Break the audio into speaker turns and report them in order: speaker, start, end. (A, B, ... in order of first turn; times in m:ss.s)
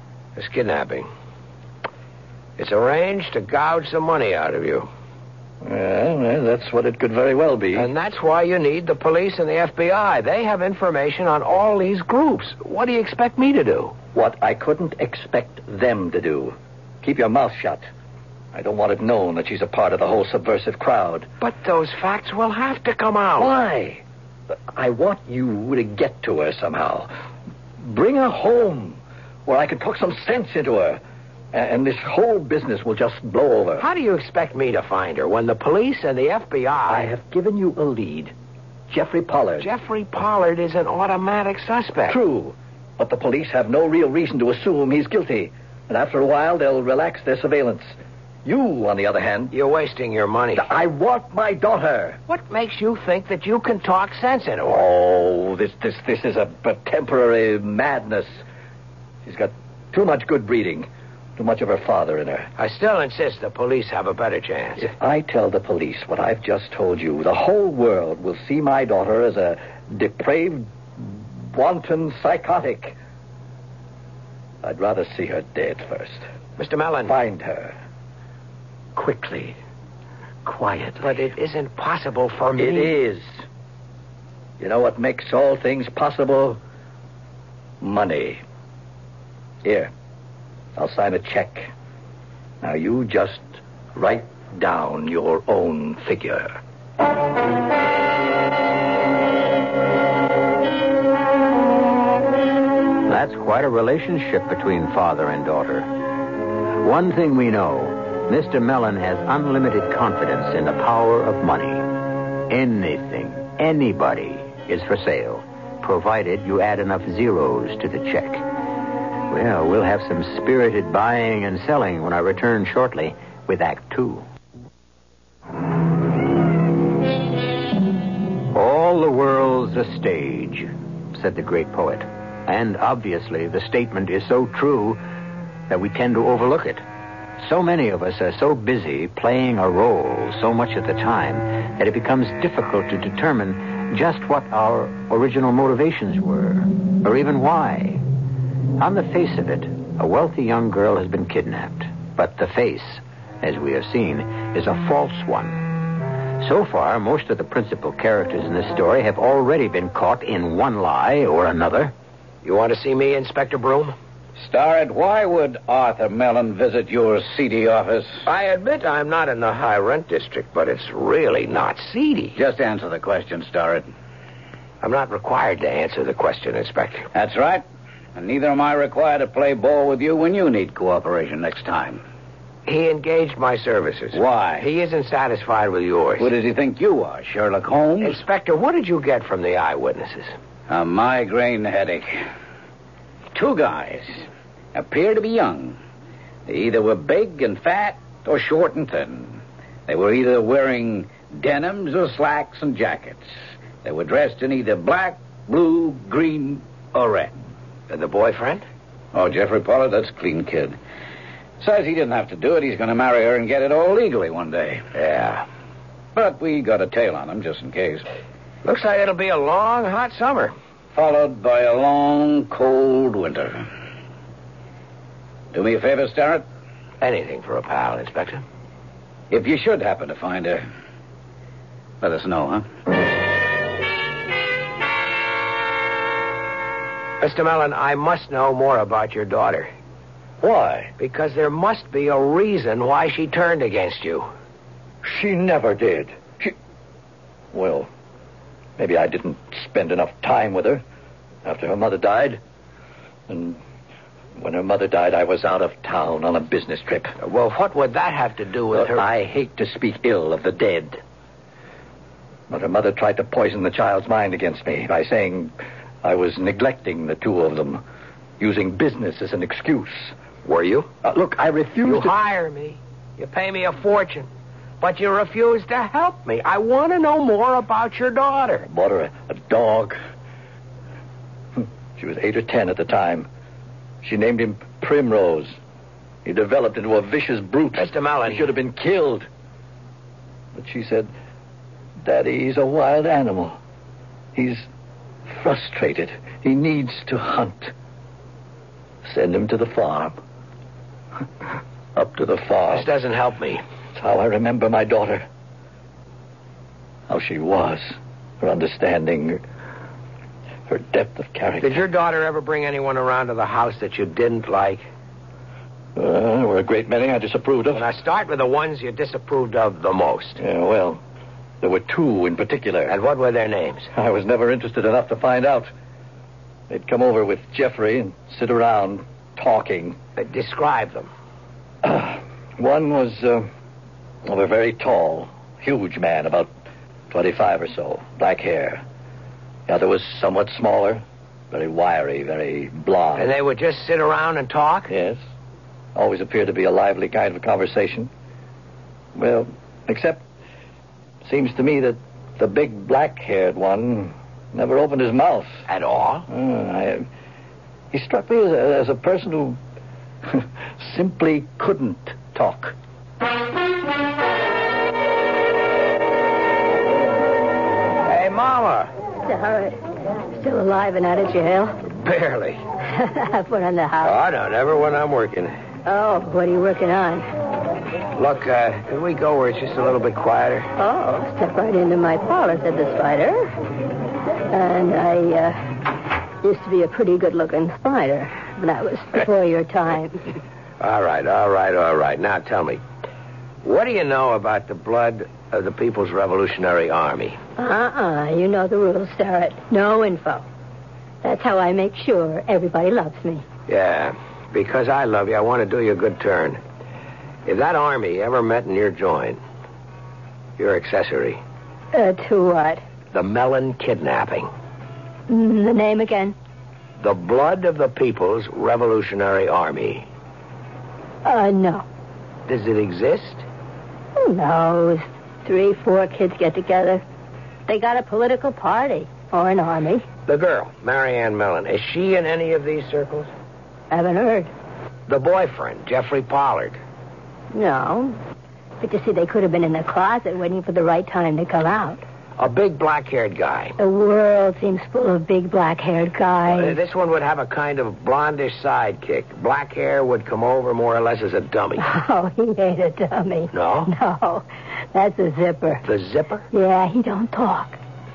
0:00.4-0:01.1 A
0:02.6-0:04.9 A
0:05.6-0:07.9 B
0:07.7-0:14.0 A
0:14.1-0:17.8 B
0:18.5-0:21.3 B
0:21.4-0:23.5 A
0:23.4-0:24.0 B
0:24.7-0:27.1 B
0:27.8-0:31.0 B
0:31.5-0:33.9 B
0:33.8-0:37.1 A
0:36.9-0:38.3 B
0:38.9-0:39.7 B
0:39.6-0:42.2 A
0:42.1-0:47.9 B
0:48.4-0:49.5 B
0:49.5-0:50.7 A
0:50.5-0:52.2 B
0:52.3-0:54.8 A
0:54.7-0:58.4 B
0:59.2-1:02.5 B
1:02.6-1:04.9 A
1:04.8-1:13.0 B
1:14.6-1:16.2 B
1:16.6-1:17.2 A
1:17.0-1:17.7 B
1:19.0-1:19.5 B
1:20.4-1:21.3 B
1:21.0-1:23.0 A
1:22.6-1:23.3 B
1:24.6-1:26.6 B
1:27.8-1:28.4 B
1:29.6-1:29.9 B
1:30.8-1:31.7 B
1:32.6-1:36.6 B
1:43.0-1:45.9 C
1:46.8-1:58.4 C
1:59.3-2:04.2 C
2:08.5-2:15.0 C
2:15.7-2:16.8 C
2:17.4-2:28.0 C
2:28.8-2:41.9 C
2:42.4-2:43.9 A
2:44.4-2:48.2 D
2:48.2-2:52.4 A
2:52.4-2:53.8 D
2:54.8-2:57.1 A
2:57.1-2:57.6 D
2:58.2-3:02.0 D
3:02.6-3:06.3 A
3:04.1-3:04.6 D
3:06.2-3:08.1 D
3:08.0-3:10.3 A
3:10.7-3:12.2 D
3:13.3-3:14.1 D
3:14.7-3:15.7 D
3:16.5-3:23.2 D
3:23.8-3:27.3 D
3:27.9-3:28.6 A
3:29.1-3:30.7 D
3:31.6-3:34.8 D
3:34.9-3:35.5 A
3:36.2-3:38.0 D
3:38.6-3:40.5 A
3:40.9-3:43.6 D
3:45.5-3:46.4 D
3:47.0-3:48.4 A
3:49.3-3:50.6 D
3:52.0-3:52.6 D
3:57.2-3:59.7 A
4:00.4-4:00.9 B
4:01.0-4:04.3 A
4:05.0-4:06.5 B
4:07.5-4:07.9 B
4:08.8-4:10.8 B
4:11.4-4:12.4 B
4:13.3-4:13.6 B
4:14.4-4:17.1 B
4:17.2-4:19.0 A
4:18.7-4:21.0 B
4:22.5-4:27.8 B
4:28.4-4:30.1 B
4:30.4-4:30.9 A
4:31.0-4:32.2 B
4:31.8-4:34.3 A
4:34.8-4:38.7 A
4:38.7-4:40.0 B
4:41.6-4:43.3 B
4:44.0-4:45.6 B
4:46.2-4:49.3 B
4:47.7-4:48.5 A
4:50.5-4:51.1 B
4:52.0-4:53.6 B
4:54.3-4:54.6 B
4:55.3-4:57.7 B
4:59.0-5:00.1 B
5:02.0-5:02.9 B
5:02.7-5:03.6 A
5:04.0-5:05.2 B
5:07.1-5:09.4 B
5:10.7-5:11.8 B
5:11.6-5:14.8 A
5:16.0-5:17.8 B
5:17.7-5:20.4 A
5:20.4-5:21.0 B
5:21.6-5:22.9 B
5:22.9-5:23.9 A
5:23.9-5:25.7 B
5:26.7-5:30.0 B
5:30.2-5:31.1 A
5:31.8-5:33.5 B
5:34.2-5:36.5 B
5:37.1-5:38.8 B
5:39.7-5:43.3 B
5:43.2-5:44.9 A
5:44.9-5:45.2 B
5:45.9-5:48.1 B
5:49.2-5:50.2 B
5:51.2-5:55.6 B
5:55.7-5:56.3 A
5:56.3-5:57.1 B
5:57.9-5:59.6 B
6:00.2-6:02.7 B
6:08.0-6:08.9 A
6:09.2-6:09.8 E
6:10.3-6:11.8 E
6:11.8-6:12.6 A
6:12.9-6:14.1 E
6:14.0-6:15.5 A
6:15.8-6:17.2 E
6:18.2-6:20.7 A
6:20.8-6:23.5 E
6:24.5-6:25.6 E
6:26.4-6:30.2 E
6:30.8-6:32.8 A
6:33.6-6:37.4 A
6:37.6-6:40.4 E
6:41.2-6:43.4 E
6:43.7-6:46.6 A
6:47.4-6:49.4 A
6:50.6-6:51.4 A
6:51.9-6:52.8 E
6:53.1-6:54.5 A
6:55.3-6:56.3 E
6:57.0-7:00.1 A
7:01.2-7:01.8 E
7:02.4-7:03.4 A
7:04.2-7:07.0 E
7:07.7-7:10.1 E
7:10.2-7:13.3 A
7:13.9-7:14.5 E
7:15.1-7:16.8 A
7:17.5-7:18.2 E
7:18.8-7:22.0 E
7:22.4-7:23.8 A
7:23.8-7:26.8 E
7:26.4-7:31.9 A
7:31.8-7:35.8 E
7:33.5-7:33.9 A
7:35.8-7:36.5 A
7:36.5-7:37.8 E